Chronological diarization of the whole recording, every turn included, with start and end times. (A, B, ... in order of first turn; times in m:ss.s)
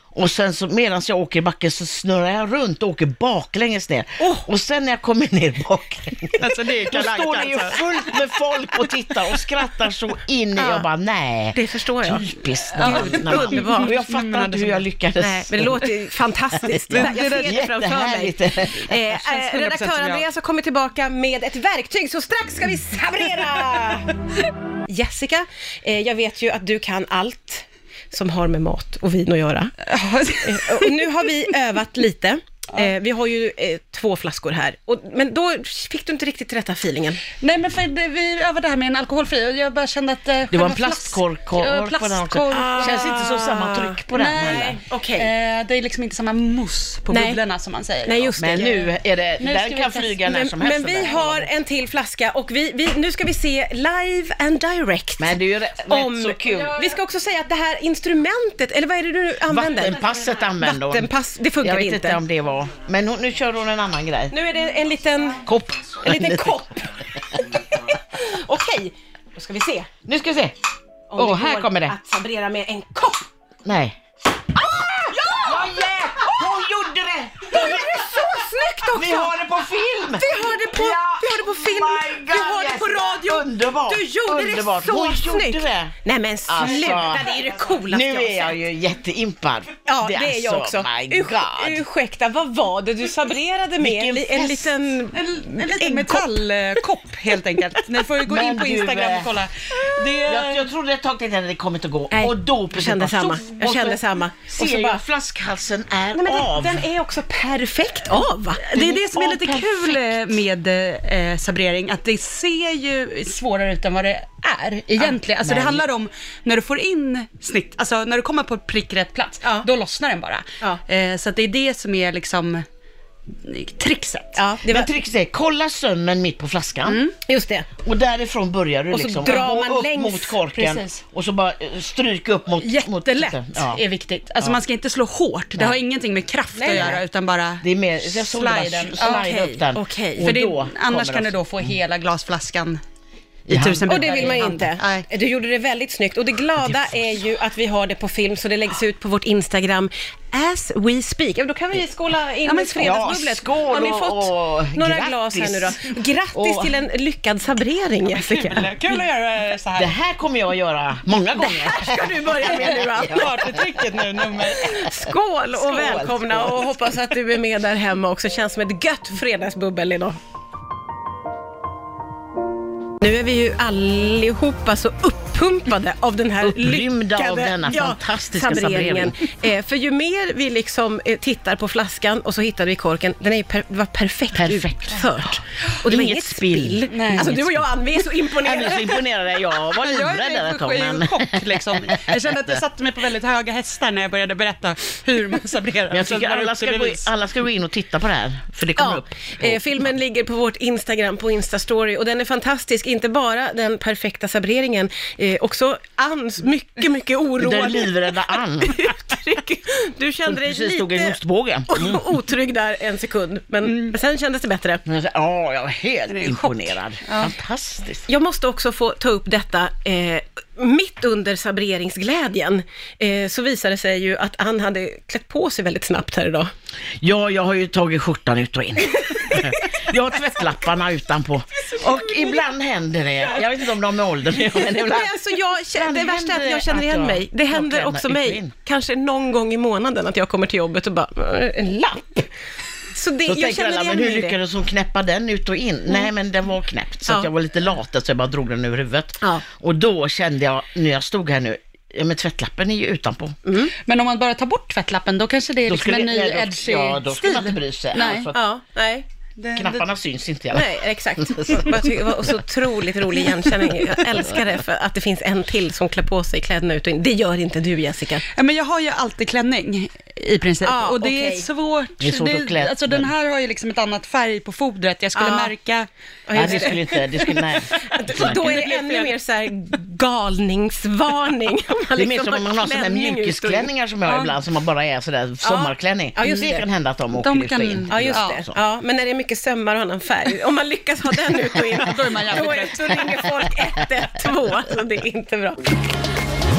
0:00.1-0:15.9 A
0:04.2-0:04.5 B
0:06.4-0:07.8 C
0:10.6-0:10.8 B
0:11.5-0:13.9 B
0:12.8-0:14.8 C
0:15.2-0:24.2 B
0:16.5-0:18.9 A
0:16.9-0:17.5 C
0:19.1-0:20.2 C
0:24.9-0:29.7 B
0:29.8-0:31.1 C
0:30.4-0:37.2 B
0:37.4-0:43.1 C
0:40.5-0:44.8 A
0:42.5-0:44.0 B
0:44.1-0:48.3 C
0:44.8-0:45.3 B
0:47.1-0:47.4 B
0:48.0-0:48.9 B
0:48.4-0:51.5 A
0:49.4-0:50.2 C
0:50.2-1:02.2 B
0:55.2-0:56.8 A
0:59.5-1:01.1 A
1:01.6-1:04.3 A
1:04.3-1:05.4 B
1:05.4-1:06.6 A
1:06.0-1:07.0 B
1:07.3-1:07.6 A
1:07.8-1:09.9 B
1:10.0-1:10.5 A
1:11.1-1:13.3 B
1:11.2-1:11.9 A
1:13.6-1:14.0 A
1:14.7-1:25.9 A
1:14.9-1:16.4 B
1:17.5-1:19.4 B
1:20.2-1:28.6 B
1:26.5-1:31.8 A
1:29.8-1:36.4 B
1:33.8-1:34.8 A
1:35.1-1:40.7 C
1:38.2-1:39.3 A
1:40.1-1:46.9 A
1:42.1-1:45.0 B
1:46.1-1:48.9 B
1:48.6-2:02.6 C
1:48.7-1:50.2 A
1:55.4-1:55.8 A
2:03.4-2:04.4 C
2:04.4-2:04.9 B
2:04.7-2:07.0 A
2:06.9-2:07.1 C
2:07.2-2:07.7 B
2:07.8-2:13.8 A
2:08.9-2:10.4 B
2:10.6-2:11.0 C
2:12.6-2:19.3 C
2:16.5-2:17.0 B
2:16.7-2:17.0 A
2:17.6-2:21.3 A
2:19.0-2:20.3 B
2:20.2-2:22.8 C
2:23.5-2:23.9 A
2:23.5-2:25.0 C
2:23.9-2:38.7 B
2:26.6-2:27.2 A
2:32.4-2:33.0 C
2:32.8-2:36.7 A
2:38.1-2:39.9 C
2:39.8-2:43.8 A
2:41.3-2:43.3 B
2:43.1-2:44.8 C
2:44.5-2:50.2 B
2:45.1-2:46.7 A
2:53.0-3:09.0 B
2:56.4-2:59.2 A
3:04.3-3:07.6 A
3:06.9-3:07.4 C
3:08.3-3:12.6 A
3:09.7-3:17.1 C
3:15.9-3:19.6 A
3:18.8-3:31.2 B
3:27.4-3:28.9 A
3:30.2-3:32.0 A
3:31.7-3:34.8 B
3:33.7-3:33.9 C
3:34.8-3:38.1 A
3:36.1-3:37.3 C
3:38.1-3:46.5 B
3:47.0-3:55.1 A
3:51.7-3:52.3 B
3:54.5-4:02.3 B
3:55.7-3:58.5 A
4:02.9-4:04.4 B
4:03.2-4:13.4 A
4:13.4-4:13.7 B
4:13.8-4:18.3 C
4:15.6-4:18.4 A
4:18.3-4:19.0 B
4:19.4-4:19.9 C
4:19.5-4:21.9 A
4:20.5-4:28.2 B
4:28.3-4:36.7 C
4:30.6-4:31.4 B
4:32.0-4:33.1 A
4:35.1-4:35.5 B
4:36.3-4:43.7 B
4:36.3-4:38.6 A
4:38.2-4:39.1 C
4:42.0-4:48.6 A
4:44.0-4:44.3 C
4:45.4-4:46.6 B
4:47.1-4:48.4 C
4:47.9-4:55.7 B
4:51.7-4:53.2 C